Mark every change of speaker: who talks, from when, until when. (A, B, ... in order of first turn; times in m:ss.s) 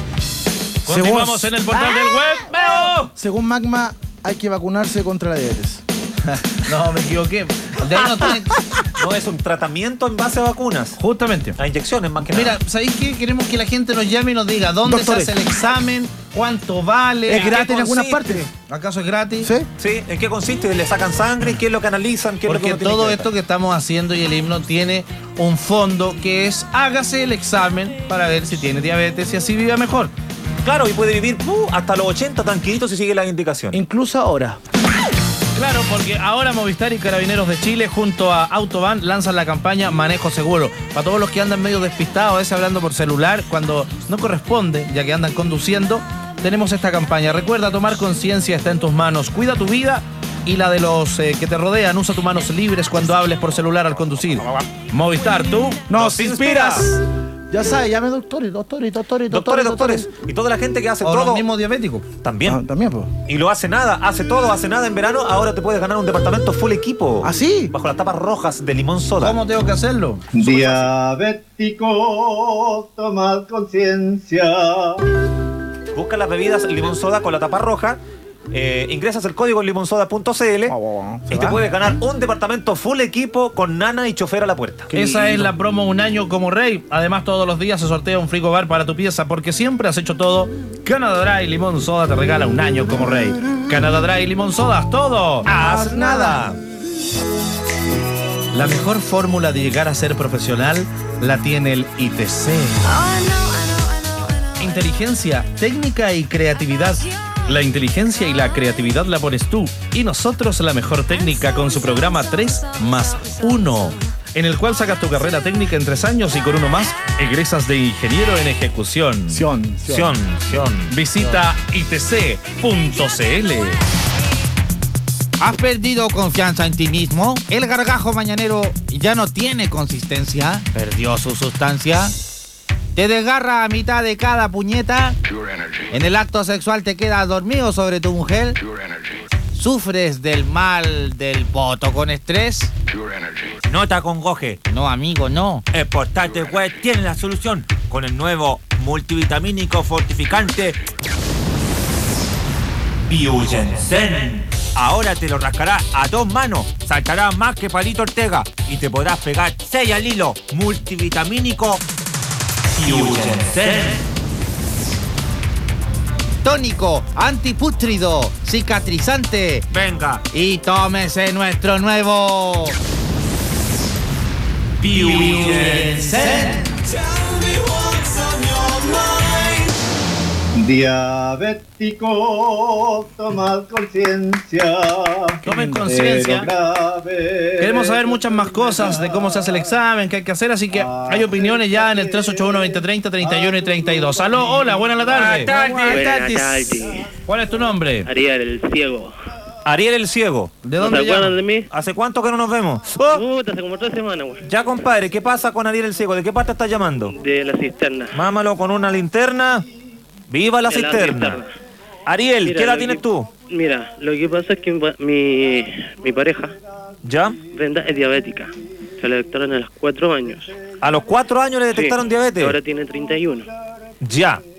0:00.9-0:02.3 A
0:00.9-0:03.1 B
0:03.2-0:05.8 A
0:06.3-0:08.6 B
0:09.0-0:11.0 C
0:11.0-0:11.6 B
0:11.6-0:12.6 C
0:12.3-0:17.6 B
0:14.8-0:15.3 A
0:17.3-0:18.5 A
0:17.3-0:18.4 C
0:18.6-0:19.5 B
0:19.4-0:19.7 A
0:19.8-0:23.3 C
0:22.5-0:30.1 B
0:30.6-0:33.8 C
0:33.7-0:34.6 A
0:35.6-0:56.0 B
0:54.4-0:54.7 C
0:55.9-0:57.0 A
0:56.0-0:56.9 C
0:57.5-1:00.1 A
0:59.3-1:01.4 C
1:01.0-1:02.1 B
1:02.2-1:02.6 C
1:02.5-1:03.1 A
1:03.3-1:09.4 C
1:07.2-1:07.7 A
1:09.2-1:10.4 B
1:10.3-1:15.0 D
1:10.4-1:10.9 C
1:15.9-1:18.0 C
1:18.5-1:20.7 C
1:20.7-1:21.6 A
1:21.3-1:24.9 C
1:24.9-1:25.5 A
1:24.9-1:36.4 B
1:35.5-1:36.6 C
1:38.5-1:42.8 B
1:44.6-1:59.4 B
1:59.3-2:00.2 A
1:59.9-2:00.9 C
2:00.9-2:03.8 B
2:05.4-2:12.2 E
2:13.0-2:15.2 E
2:15.9-2:18.6 E
2:19.5-2:22.7 E
2:23.6-2:24.6 C
2:24.7-2:25.6 E
2:25.7-2:30.8 C
2:33.1-2:41.8 C
2:42.7-2:44.0 C
2:46.4-2:49.7 E
2:49.7-2:50.2 C
2:50.3-2:52.8 E
2:54.8-2:56.3 C
2:57.7-2:59.4 C
3:00.6-3:09.7 D
3:05.4-3:06.5 B
3:05.4-3:05.9 A
3:07.6-3:16.1 B
3:10.7-3:16.1 D
3:15.1-3:16.0 C
3:15.2-3:17.1 F
3:17.3-3:18.1 B
3:18.0-3:19.1 F
3:19.6-3:20.6 C
3:20.6-3:21.4 B
3:20.8-3:21.7 F
3:21.7-3:23.2 C
3:23.1-3:24.4 F
3:24.4-3:27.1 C
3:27.2-3:28.2 F
3:28.1-3:29.7 C
3:30.3-3:31.4 C
3:30.7-3:31.5 F
3:32.1-3:33.3 C
3:32.4-3:36.6 F
3:37.0-3:37.4 C
3:37.5-3:40.5 F
3:40.8-3:42.6 C
3:41.7-3:43.5 F
3:44.0-3:44.4 C